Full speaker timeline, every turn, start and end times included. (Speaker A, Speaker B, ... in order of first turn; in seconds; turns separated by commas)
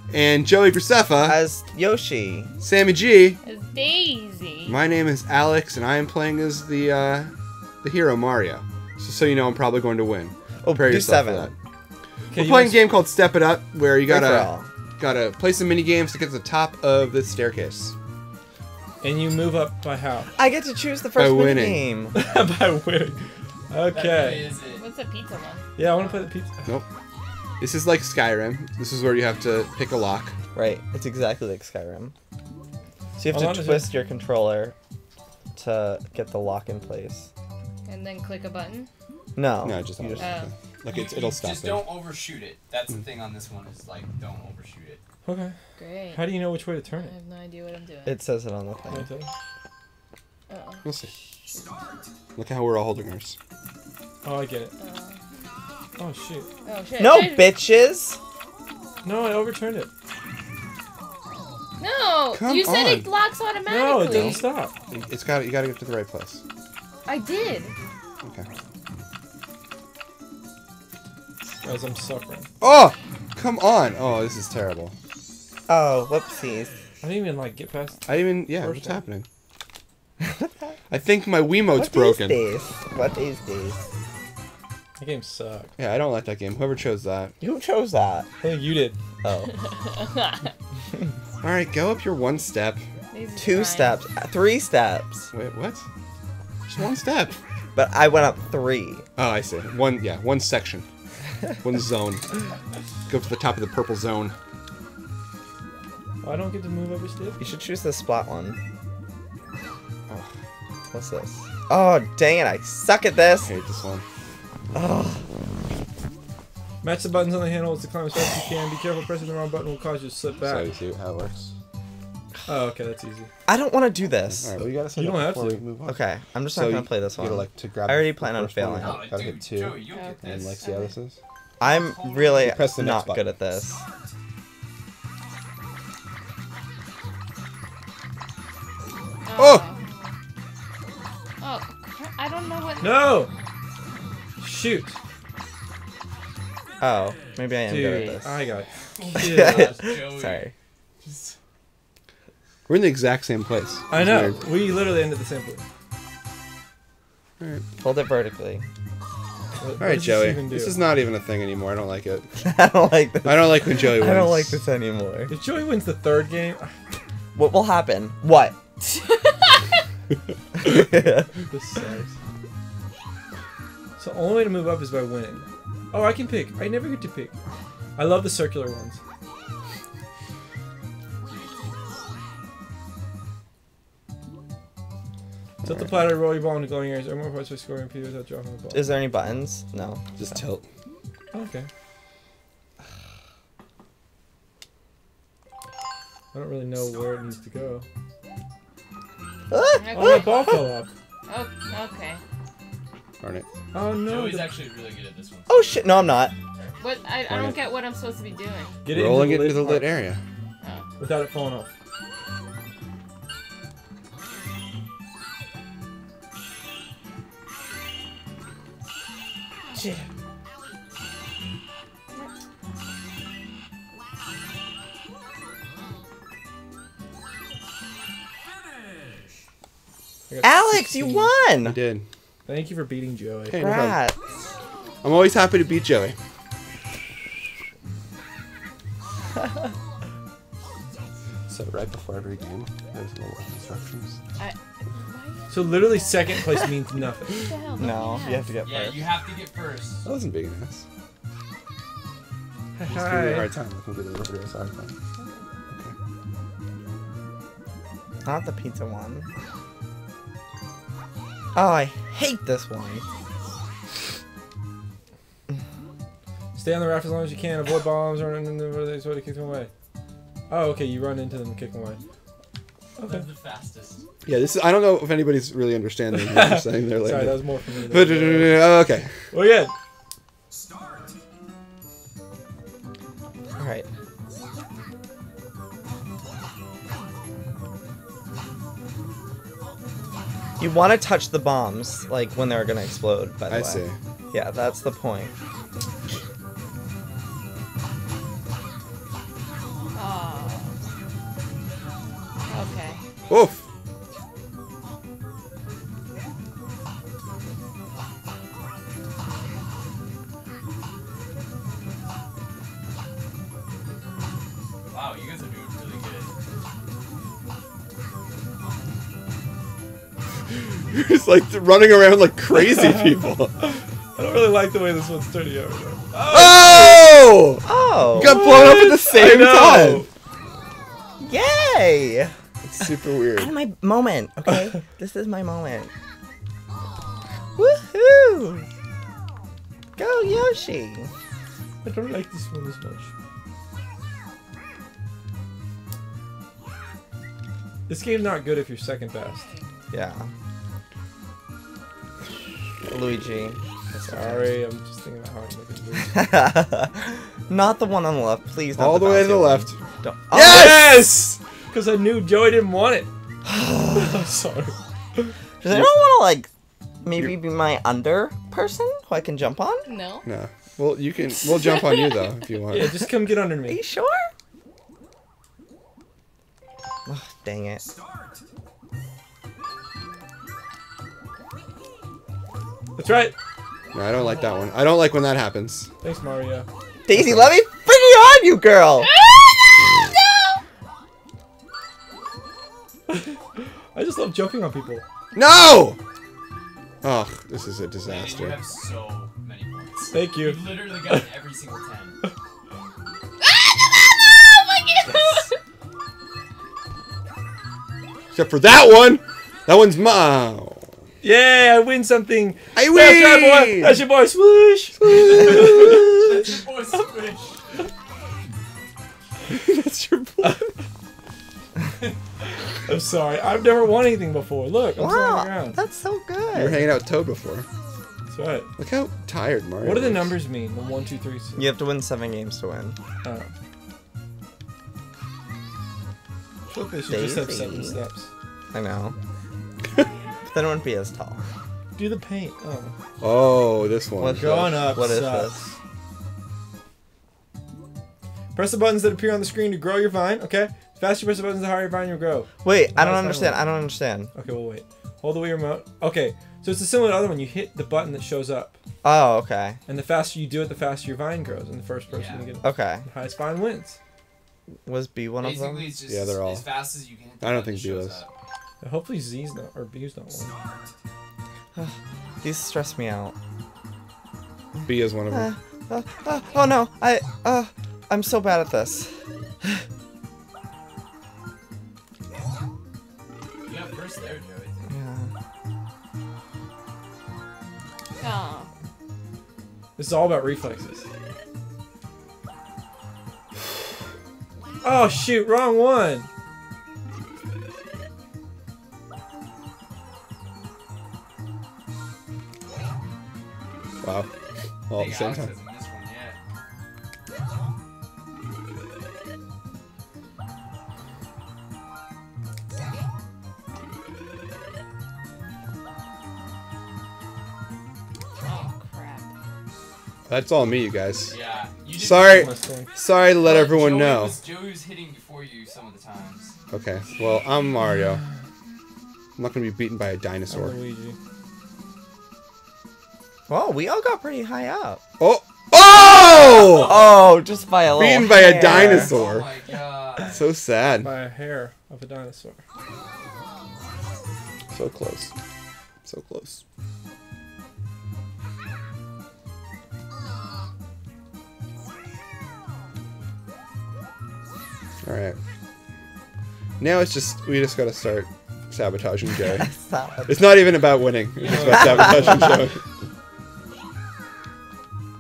Speaker A: 0.1-1.4, Speaker B: 1.2-2.5, Speaker A: 2.6-3.4, Speaker C: 3.4-4.8, Speaker A: 4.6-7.3, Speaker A: 7.8-11.6, Speaker B: 10.6-11.5, Speaker D: 12.3-12.9, Speaker A: 12.3-17.9, Speaker B: 14.1-14.7, Speaker D: 19.0-20.3, Speaker B: 20.4-22.1, Speaker A: 21.2-21.9, Speaker D: 22.1-24.5, Speaker E: 23.9-24.9, Speaker C: 24.6-25.7, Speaker D: 25.8-26.7, Speaker A: 27.6-30.3, Speaker B: 30.6-32.1, Speaker B: 33.2-34.7, Speaker D: 33.3-33.9, Speaker B: 35.5-37.3, Speaker C: 37.9-38.9, Speaker B: 39.4-40.1, Speaker A: 39.6-42.0, Speaker C: 40.1-40.5, Speaker E: 40.9-45.0, Speaker D: 45.2-45.5, Speaker C: 45.8-46.3, Speaker D: 46.1-47.1, Speaker C: 46.9-48.2, Speaker B: 48.0-49.1, Speaker D: 48.9-49.3, Speaker C: 50.5-51.7, Speaker A: 50.8-51.1, Speaker A: 52.4-53.4, Speaker D: 54.2-54.7, Speaker C: 54.8-55.2, Speaker D: 56.0-56.5, Speaker C: 56.6-57.5, Speaker B: 57.0-58.2, Speaker D: 59.0-59.9, Speaker C: 61.8-64.4, Speaker A: 62.3-63.1, Speaker D: 63.7-64.8, Speaker A: 64.0-66.4, Speaker C: 67.1-67.7, Speaker D: 71.6-72.5, Speaker A: 72.6-74.9, Speaker B: 75.7-76.8, Speaker D: 77.0-79.0, Speaker A: 78.1-79.2, Speaker B: 80.2-80.7, Speaker A: 80.9-82.4, Speaker B: 81.7-83.8, Speaker D: 85.0-85.7, Speaker A: 85.8-87.3, Speaker B: 87.4-88.3, Speaker D: 88.4-89.0, Speaker B: 89.2-89.5, Speaker C: 90.2-90.5, Speaker A: 91.4-92.8, Speaker C: 93.1-94.0, Speaker B: 93.3-95.3, Speaker A: 95.3-95.8, Speaker A: 96.7-97.4, Speaker B: 97.8-99.1, Speaker A: 99.2-100.8, Speaker A: 101.6-102.3, Speaker A: 103.1-104.3, Speaker D: 106.2-107.4, Speaker B: 107.4-108.6, Speaker B: 110.9-113.5, Speaker A: 113.4-114.0, Speaker B: 114.7-115.2, Speaker D: 116.8-120.7, Speaker A: 120.4-121.5, Speaker D: 122.5-123.3, Speaker B: 123.5-124.5, Speaker A: 124.4-131.2, Speaker D: 124.9-125.7, Speaker B: 125.8-129.1, Speaker E: 128.8-130.6, Speaker C: 129.8-130.9, Speaker B: 131.6-133.8, Speaker E: 131.6-132.6, Speaker A: 132.4-133.3, Speaker C: 139.2-139.8, Speaker A: 139.3-139.6, Speaker C: 141.4-143.2, Speaker D: 142.8-143.3, Speaker D: 144.4-145.0, Speaker B: 146.8-148.4, Speaker D: 147.7-149.8, Speaker E: 148.9-150.5, Speaker B: 149.2-150.5, Speaker E: 151.0-151.4, Speaker A: 152.7-154.4, Speaker D: 153.9-155.7, Speaker B: 157.8-158.7, Speaker D: 159.6-160.8, Speaker A: 159.8-162.3, Speaker B: 162.4-165.3, Speaker A: 163.2-164.6, Speaker D: 165.3-166.7, Speaker B: 167.3-168.6, Speaker C: 169.1-169.6, Speaker B: 170.6-171.3, Speaker D: 171.4-172.2, Speaker D: 174.0-177.3, Speaker D: 177.9-179.0, Speaker A: 185.6-186.2, Speaker D: 185.6-188.9, Speaker B: 188.7-190.4, Speaker A: 190.2-190.6, Speaker D: 191.3-191.7, Speaker D: 196.3-197.8, Speaker B: 199.5-200.7, Speaker C: 199.8-200.3, Speaker D: 199.9-200.9, Speaker C: 201.3-202.2, Speaker D: 203.7-204.6, Speaker E: 204.0-205.8, Speaker B: 205.5-206.3, Speaker C: 206.8-208.8, Speaker A: 207.3-207.6, Speaker D: 208.8-210.0, Speaker A: 208.9-210.2, Speaker D: 211.0-211.7, Speaker D: 219.8-220.0, Speaker D: 230.3-231.3, Speaker B: 230.4-231.8, Speaker A: 231.6-232.1, Speaker D: 232.4-233.7, Speaker A: 233.5-234.0, Speaker B: 233.6-234.2, Speaker A: 235.0-236.2, Speaker A: 241.5-244.2, Speaker C: 244.4-246.4, Speaker D: 245.5-247.5, Speaker C: 247.3-248.6, Speaker B: 247.8-249.2, Speaker E: 248.6-250.1, Speaker A: 250.0-250.8, Speaker D: 252.8-253.5, Speaker A: 252.9-254.9, Speaker C: 255.2-255.4, Speaker B: 258.2-259.3, Speaker B: 261.6-263.0, Speaker D: 266.6-269.7, Speaker D: 270.5-272.0, Speaker D: 273.0-273.3, Speaker E: 273.0-274.0, Speaker A: 274.2-279.1, Speaker D: 276.1-279.7, Speaker B: 283.6-283.9, Speaker B: 290.6-295.3, Speaker A: 293.5-294.0, Speaker C: 299.9-300.8, Speaker C: 302.5-303.0, Speaker A: 303.3-303.6, Speaker E: 314.9-316.3, Speaker A: 320.5-323.5, Speaker D: 322.5-327.1, Speaker A: 326.3-330.1, Speaker B: 327.6-328.4, Speaker D: 328.1-330.1, Speaker B: 331.2-332.3, Speaker A: 332.6-333.5, Speaker B: 333.4-335.9, Speaker B: 337.6-338.7, Speaker B: 339.9-341.1, Speaker D: 341.8-343.1, Speaker D: 347.9-349.5, Speaker B: 349.9-350.3, Speaker B: 352.9-354.6, Speaker D: 353.9-356.3, Speaker B: 356.1-360.9, Speaker A: 358.8-359.8, Speaker D: 360.3-363.1, Speaker A: 360.3-361.0, Speaker B: 363.5-364.1, Speaker D: 363.9-365.3, Speaker B: 365.6-366.5, Speaker B: 367.0-369.9, Speaker C: 369.9-370.2, Speaker A: 370.2-373.0, Speaker B: 371.6-371.8, Speaker C: 371.6-372.0, Speaker D: 372.7-373.8, Speaker B: 373.6-374.3, Speaker B: 377.1-377.8, Speaker D: 382.9-383.4, Speaker A: 383.9-385.9, Speaker C: 384.3-384.6, Speaker D: 386.0-386.7, Speaker B: 387.1-389.1, Speaker A: 387.2-387.5, Speaker C: 389.1-390.5, Speaker D: 393.1-395.0, Speaker A: 395.3-396.0, Speaker A: 397.0-398.6, Speaker E: 398.0-402.2, Speaker D: 400.1-401.3, Speaker C: 403.7-405.5, Speaker A: 408.3-410.9, Speaker D: 411.2-416.4, Speaker A: 412.8-414.0, Speaker E: 415.0-417.6, Speaker A: 419.5-420.6, Speaker D: 420.4-420.7, Speaker D: 422.8-425.8, Speaker B: 424.9-426.8, Speaker A: 426.5-427.7, Speaker D: 428.3-428.7, Speaker A: 428.8-430.4, Speaker D: 429.8-431.7, Speaker B: 431.6-433.0, Speaker D: 433.2-433.5, Speaker D: 436.7-438.3, Speaker B: 437.1-438.0, Speaker B: 438.7-439.1, Speaker B: 440.5-441.4, Speaker D: 441.9-442.9, Speaker A: 443.2-444.8, Speaker B: 444.2-445.6, Speaker D: 444.4-445.8, Speaker D: 448.5-453.7, Speaker B: 452.6-454.3, Speaker D: 454.3-458.8, Speaker B: 459.0-459.8, Speaker D: 459.9-464.0, Speaker E: 462.1-462.5, Speaker B: 462.6-463.1, Speaker B: 464.8-465.9, Speaker E: 465.4-468.3, Speaker A: 466.1-468.2, Speaker D: 468.8-470.6, Speaker E: 470.6-470.9, Speaker B: 471.8-473.3, Speaker B: 474.8-479.8, Speaker A: 474.9-475.5, Speaker E: 483.6-484.9, Speaker B: 484.9-485.3, Speaker C: 488.2-488.7, Speaker D: 490.0-491.1, Speaker D: 494.8-496.3, Speaker A: 504.0-504.3, Speaker A: 504.9-505.6, Speaker E: 504.9-506.4, Speaker C: 518.4-519.2, Speaker A: 520.3-521.4, Speaker E: 521.3-522.5, Speaker A: 521.9-524.5, Speaker D: 522.2-523.0, Speaker E: 523.4-526.6, Speaker A: 526.7-528.2, Speaker A: 529.4-530.8, Speaker D: 530.5-531.2, Speaker B: 533.5-535.0, Speaker A: 535.2-537.1, Speaker E: 536.3-537.1, Speaker B: 536.8-539.2, Speaker A: 538.0-539.5, Speaker E: 538.6-540.5, Speaker D: 538.6-539.1, Speaker A: 540.2-541.1, Speaker D: 541.0-542.6, Speaker A: 544.7-545.3, Speaker A: 546.0-546.6, Speaker A: 555.0-555.4, Speaker A: 556.8-559.7, Speaker B: 559.6-560.5, Speaker A: 560.3-562.8, Speaker D: 561.4-562.6, Speaker B: 561.7-562.4